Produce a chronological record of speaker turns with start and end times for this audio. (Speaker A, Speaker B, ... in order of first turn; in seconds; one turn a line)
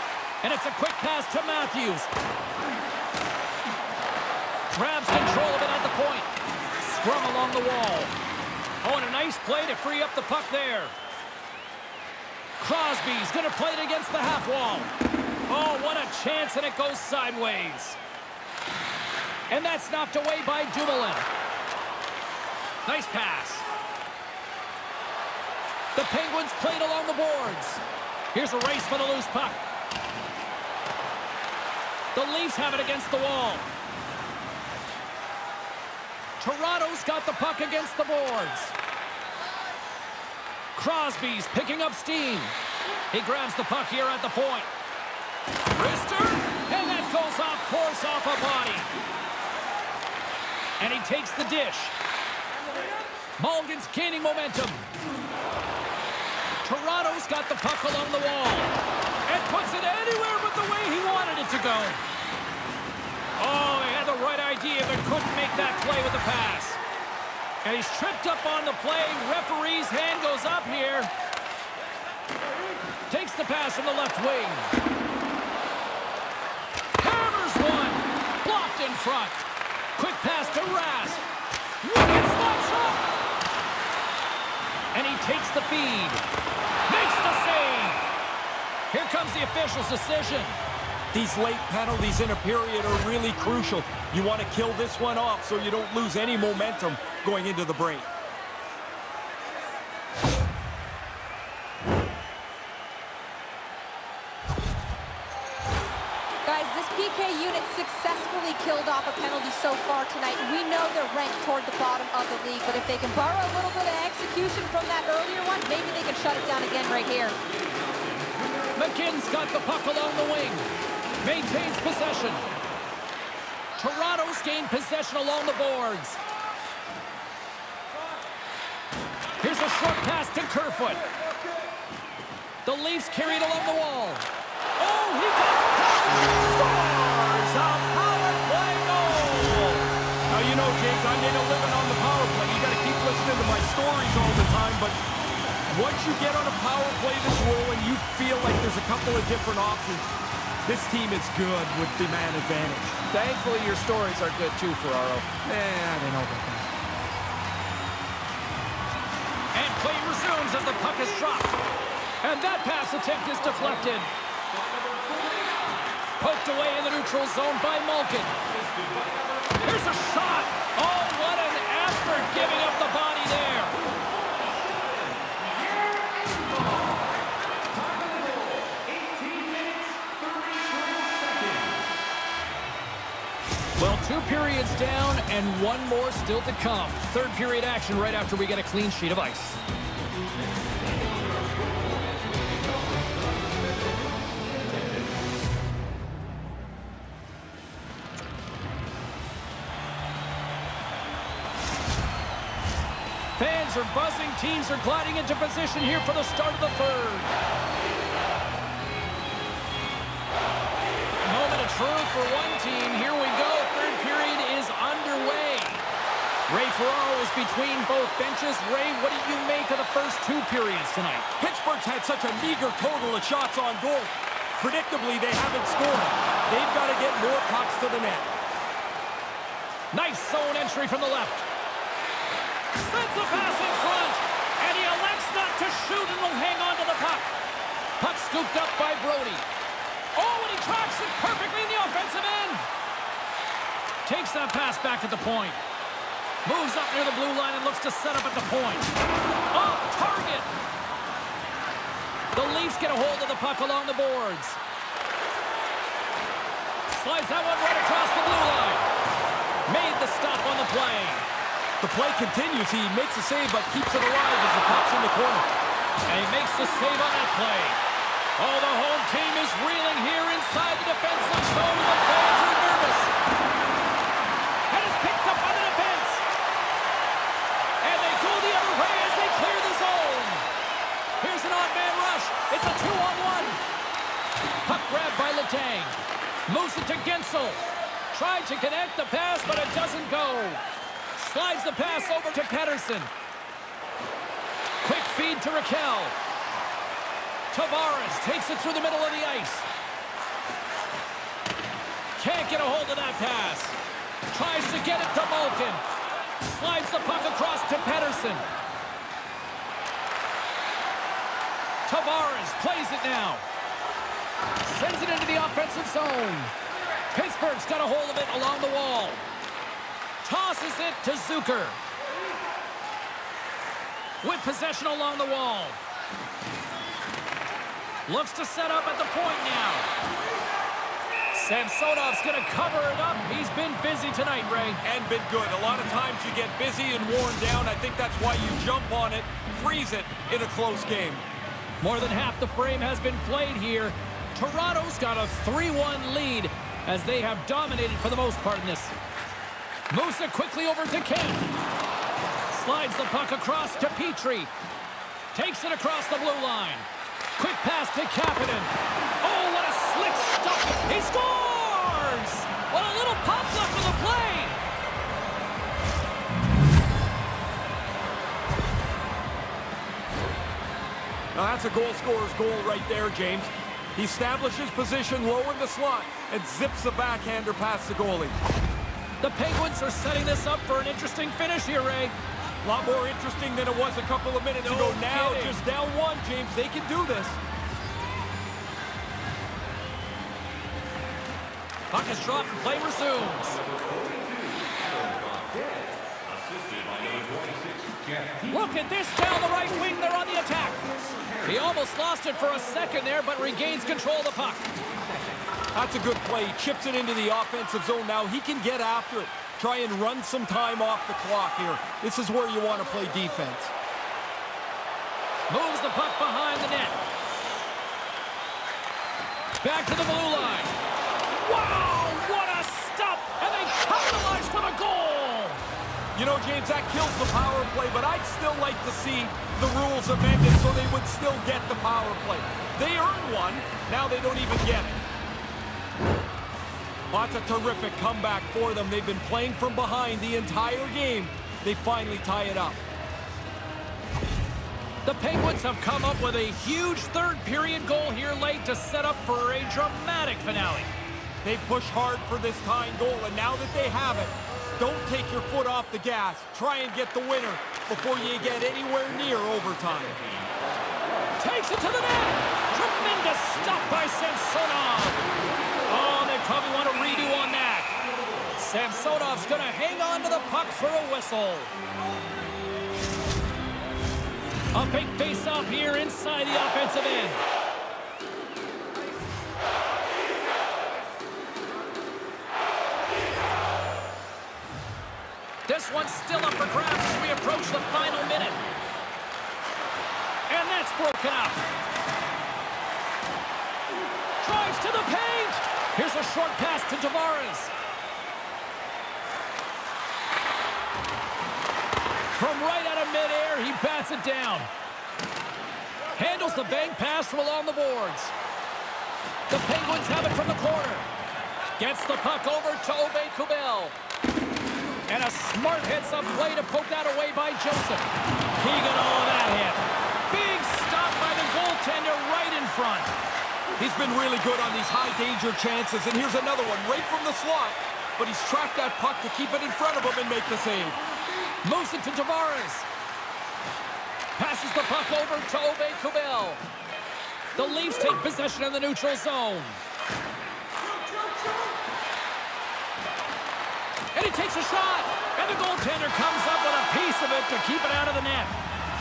Speaker A: 0.4-2.1
Speaker A: 4.7-6.3
Speaker A: 6.8-8.1
Speaker A: 8.8-10.9
Speaker A: 12.6-14.9
Speaker A: 15.5-18.0
Speaker A: 19.5-21.3
Speaker A: 22.9-23.7
Speaker A: 25.9-29.6
Speaker A: 32.1-33.7
Speaker A: 36.4-38.8
Speaker A: 40.8-42.5
Speaker A: 43.1-44.7
Speaker A: 45.8-48.9
Speaker A: 50.8-51.9
Speaker A: 53.4-54.9
Speaker A: 56.6-58.7
Speaker A: 59.2-62.0
Speaker A: 63.4-66.8
Speaker A: 67.6-71.1
Speaker A: 73.1-74.7
Speaker A: 77.0-79.4
Speaker A: 79.9-81.2
Speaker A: 81.8-83.0
Speaker A: 84.9-86.2
Speaker A: 86.9-88.0
Speaker A: 88.9-90.6
Speaker B: 91.1-98.1
Speaker C: 106.5-117.3
Speaker A: 118.7-122.5
Speaker A: 123.8-126.2
Speaker A: 129.4-131.0
Speaker A: 132.6-139.9
Speaker B: 140.3-145.0
Speaker B: 145.7-150.1
Speaker B: 150.6-153.0
Speaker A: 153.1-155.3
Speaker B: 155.4-156.7
Speaker A: 159.5-161.6
Speaker A: 162.2-164.1
Speaker B: 164.7-165.6
Speaker A: 166.2-168.4
Speaker B: 168.7-169.5
Speaker A: 169.6-173.8
Speaker B: 174.7-177.0
Speaker B: 177.8-181.8
Speaker A: 183.8-189.6
Speaker B: 190.9-194.8
Speaker A: 203.4-207.3
Speaker A: 211.2-215.9
Speaker A: 216.5-221.3
Speaker B: 221.4-228.3
Speaker A: 229.9-231.5
Speaker A: 232.8-237.3
Speaker A: 238.0-239.4
Speaker A: 240.1-242.7
Speaker A: 244.0-245.6
Speaker A: 246.4-248.9
Speaker A: 249.5-250.5
Speaker A: 252.3-254.6
Speaker A: 256.9-258.9
Speaker A: 259.6-261.2
Speaker B: 261.8-265.5
Speaker A: 266.1-267.8
Speaker A: 268.4-273.1
Speaker A: 274.7-276.2
Speaker A: 277.8-280.4
Speaker A: 281.2-283.6
Speaker A: 284.6-290.6
Speaker A: 291.1-293.1
Speaker A: 294.8-296.1
Speaker A: 297.5-299.7
Speaker A: 302.2-303.8
Speaker A: 304.3-305.8
Speaker A: 306.4-308.4
Speaker A: 311.9-313.4
Speaker A: 314.6-316.5
Speaker A: 317.1-319.2
Speaker A: 320.2-321.8
Speaker A: 324.2-325.8
Speaker A: 328.1-329.9
Speaker A: 331.3-334.8
Speaker B: 334.8-341.2
Speaker A: 341.8-348.9
Speaker A: 349.9-351.5
Speaker A: 352.5-354.5
Speaker A: 355.3-364.6
Speaker B: 371.3-378.4
Speaker A: 379.2-382.1
Speaker B: 382.6-387.4
Speaker A: 384.6-385.6
Speaker A: 391.9-393.6
Speaker B: 393.7-395.8
Speaker B: 396.6-398.1
Speaker A: 398.4-404.6
Speaker B: 405.7-413.7
Speaker A: 415.5-417.0
Speaker A: 419.6-420.8
Speaker A: 421.3-425.6
Speaker B: 426.1-435.0
Speaker B: 437.1-442.8
Speaker A: 445.0-450.9
Speaker B: 451.4-460.2
Speaker A: 461.4-465.2
Speaker A: 465.9-467.9
Speaker A: 468.5-471.7
Speaker A: 474.7-477.4
Speaker A: 485.7-488.6
Speaker A: 490.5-491.6
Speaker A: 494.4-497.7
Speaker A: 502.3-504.7
Speaker A: 506.2-508.3
Speaker A: 509.5-511.1
Speaker A: 511.8-514.0
Speaker A: 515.1-523.1
Speaker B: 523.7-531.0
Speaker A: 531.6-532.9
Speaker A: 534.4-536.6
Speaker A: 537.6-539.8
Speaker A: 544.1-548.5